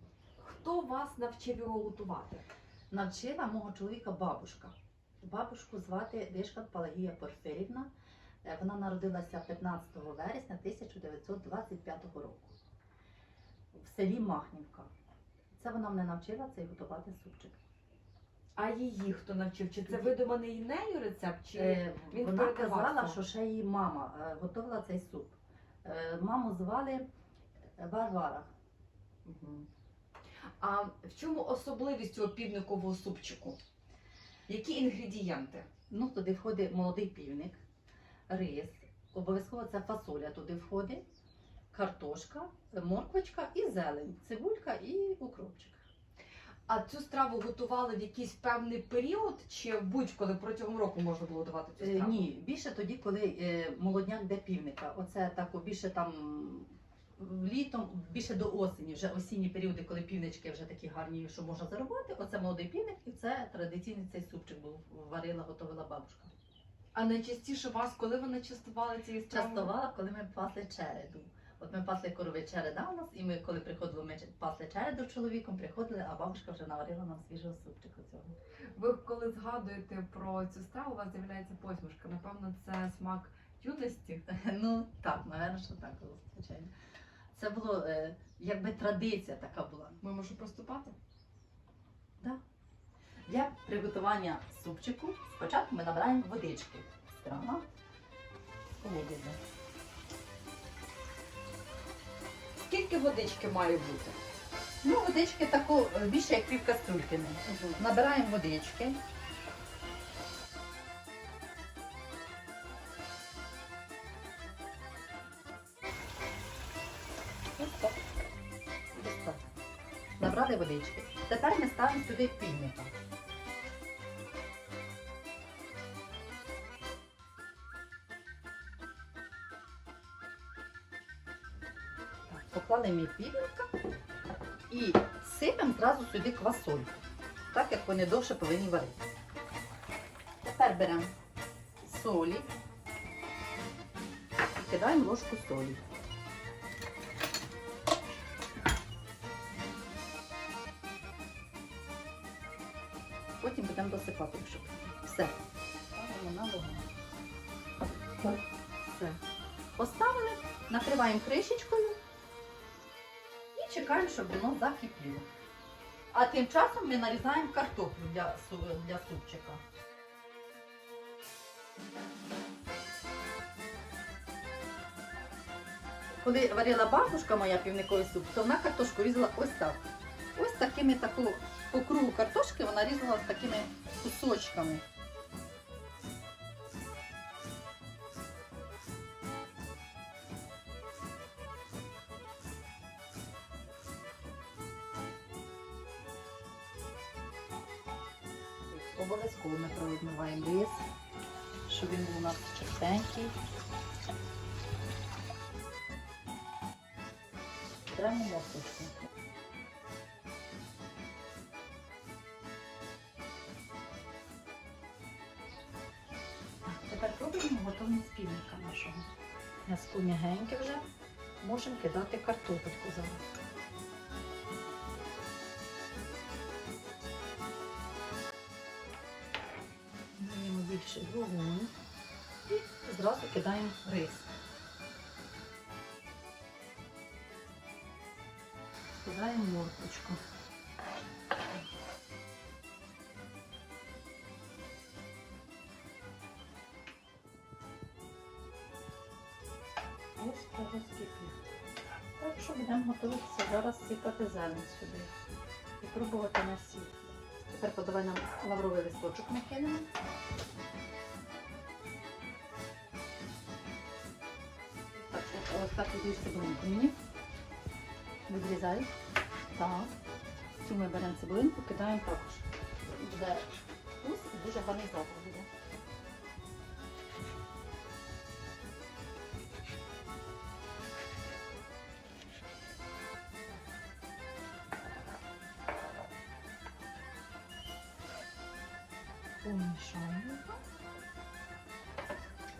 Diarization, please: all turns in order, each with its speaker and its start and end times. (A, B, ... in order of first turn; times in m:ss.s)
0:00.4-0:02.4 A
0:02.9-0:07.9 B
0:08.4-0:12.6 B
0:13.7-0:14.9 B
0:15.6-0:17.6 B
0:18.6-0:23.2 A
0:19.9-0:20.2 B
0:21.5-0:27.1 B
0:27.8-0:28.5 B
0:29.3-0:29.7 A
0:30.6-0:33.6 A
0:34.5-0:35.7 A
0:35.9-0:37.6 B
0:38.3-0:41.0 B
0:41.7-0:45.9 B
0:46.7-0:52.2 A
0:51.8-1:06.3 B
1:06.9-1:09.7 A
1:09.3-1:18.4 B
1:18.8-1:24.2 A
1:24.3-1:26.7 B
1:27.3-1:30.0 B
1:30.0-1:31.0 A
1:33.3-1:37.6 B
1:38.8-1:39.4 B
1:42.6-1:44.2 A
1:44.8-1:49.0 B
1:57.6-1:58.0 B
1:59.0-1:59.4 B
2:00.2-2:02.9 B
2:12.3-2:13.7 B
2:14.7-2:19.0 B
2:20.4-2:21.1 B
2:21.8-2:22.5 B
2:24.6-2:25.8 B
2:33.4-2:35.4 B
2:35.9-2:36.8 B
2:38.2-2:39.2 B
2:39.8-2:42.0 B
2:43.6-2:45.3 B
2:46.1-2:49.6 B
2:56.2-3:04.8 B
3:18.7-3:20.9 B
3:21.7-3:23.4 B
3:27.9-3:28.9 B
3:36.7-3:39.1 B
3:39.7-3:40.9 B
3:41.4-3:43.2 B
3:50.2-3:51.7 B
3:52.5-3:54.3 B
3:59.0-4:00.2 B
4:10.2-4:11.4 B
4:12.2-4:15.1 B
4:15.8-4:19.9 B
4:25.0-4:27.0 B
4:28.3-4:28.9 B
4:29.6-4:29.9 B
4:30.6-4:33.5 B
4:34.0-4:35.5 B
4:49.4-4:50.6 B